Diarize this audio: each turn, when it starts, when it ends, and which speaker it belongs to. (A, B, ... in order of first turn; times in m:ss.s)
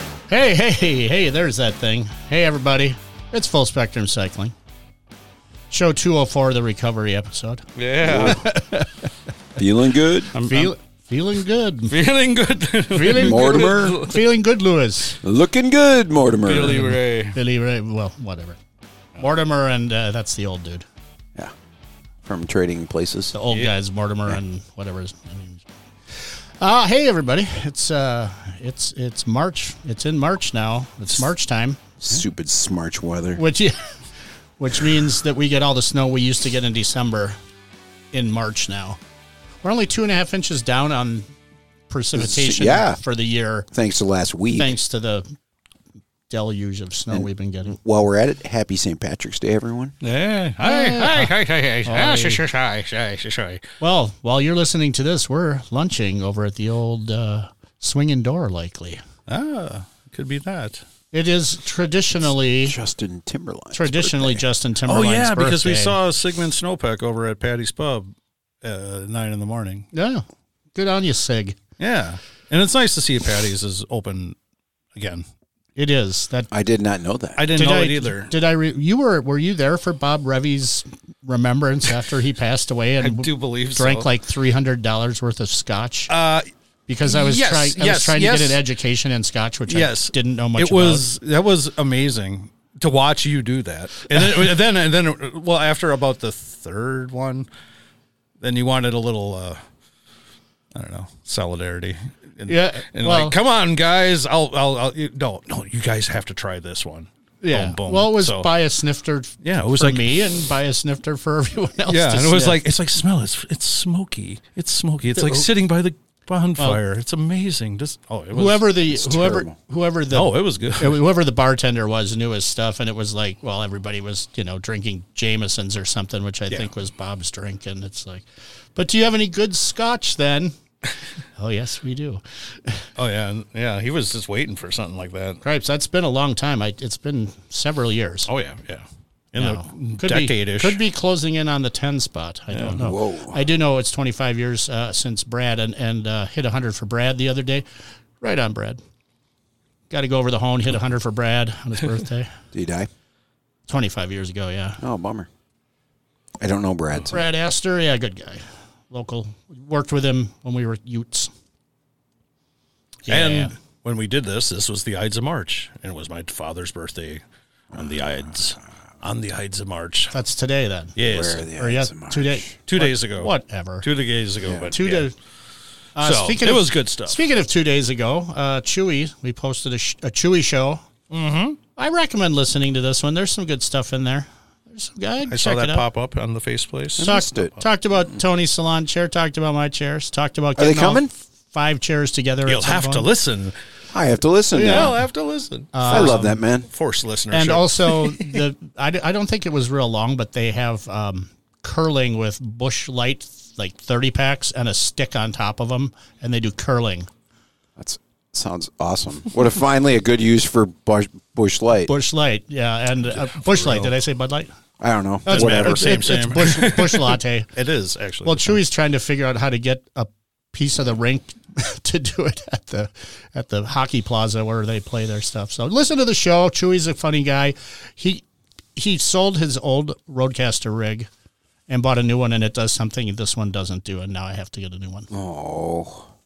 0:00.3-0:04.5 A
0:05.7-0:09.1 A
0:07.8-0:08.4 B
0:08.0-0:08.4 C
0:09.6-0:10.3 C
0:10.3-0:10.7 B
0:10.4-0:12.0 A
0:11.9-0:14.2 B
0:12.9-0:15.2 A
0:13.2-0:14.0 C
0:15.2-0:16.9 C
0:16.4-0:17.4 B
0:16.6-0:18.6 A
0:19.2-0:20.8 A
0:22.2-0:23.3 C
0:23.3-0:31.8 A
0:32.0-0:33.4 C
0:33.4-0:33.8 A
0:34.6-0:37.4 A
0:38.1-0:39.0 A
0:39.6-0:41.3 A
0:41.9-0:43.7 A
0:42.1-0:43.0 C
0:43.7-0:44.7 C
0:44.5-0:45.3 A
0:46.3-0:47.8 A
0:47.8-0:49.9 C
0:50.0-0:53.6 B
0:50.6-0:51.3 A
0:51.8-0:52.4 A
0:53.8-0:59.0 A
0:59.3-1:00.8 B
1:01.1-1:02.8 A
1:02.6-1:04.4 C
1:03.7-1:06.0 A
1:04.9-1:08.1 B
1:08.6-1:09.9 B
1:09.9-1:10.2 A
1:10.7-1:11.6 A
1:11.8-1:14.4 B
1:14.9-1:15.2 B
1:15.8-1:16.5 A
1:16.5-1:17.4 C
1:17.4-1:18.3 B
1:17.5-1:26.1 A
1:23.0-1:24.1 B
1:26.1-1:26.4 B
1:26.9-1:31.0 A
1:27.0-1:28.6 B
1:29.7-1:37.5 B
1:38.4-1:39.6 B
1:40.7-1:48.5 B
1:42.5-1:43.4 A
1:47.4-1:52.6 A
1:49.4-1:50.2 B
1:51.9-1:58.6 B
1:55.1-1:55.4 A
1:58.3-2:10.6 A
1:58.9-1:59.5 C
2:00.1-2:01.0 B
2:11.3-2:12.8 A
2:13.0-2:15.4 B
2:15.4-2:18.3 A
2:18.3-2:20.8 B
2:19.4-2:27.6 A
2:22.5-2:22.8 B
2:22.8-2:23.4 C
2:28.2-2:28.8 A
2:29.9-2:32.3 A
2:32.5-2:32.9 C
2:33.7-2:34.8 A
2:34.8-2:35.3 C
2:36.4-2:37.2 C
2:37.0-2:41.3 A
2:43.1-2:43.5 A
2:43.1-2:47.2 B
2:47.7-2:50.1 B
2:50.1-2:51.0 A
2:51.0-2:51.4 B
2:51.1-2:52.5 C
2:51.5-2:53.9 A
2:52.7-2:55.1 B
2:54.4-2:54.7 C
2:54.7-2:55.1 A
2:56.0-3:00.8 A
2:56.0-2:57.2 B
3:01.1-3:01.6 B
3:01.7-3:05.8 A
3:05.3-3:07.1 B
3:07.0-3:07.5 C
3:07.0-3:13.1 A
3:10.6-3:11.1 C
3:12.4-3:13.5 B
3:13.9-3:15.0 C
3:14.5-3:15.0 A
3:14.6-3:18.4 B
3:15.7-3:16.4 A
3:15.9-3:16.7 C
3:17.3-3:27.1 A
3:27.8-3:31.9 C
3:31.9-3:34.5 A
3:33.3-3:33.9 B
3:34.8-3:36.0 C
3:35.2-3:37.5 A
3:35.3-3:38.6 B
3:38.2-3:51.1 A
3:51.7-3:55.1 A
3:55.1-3:56.1 C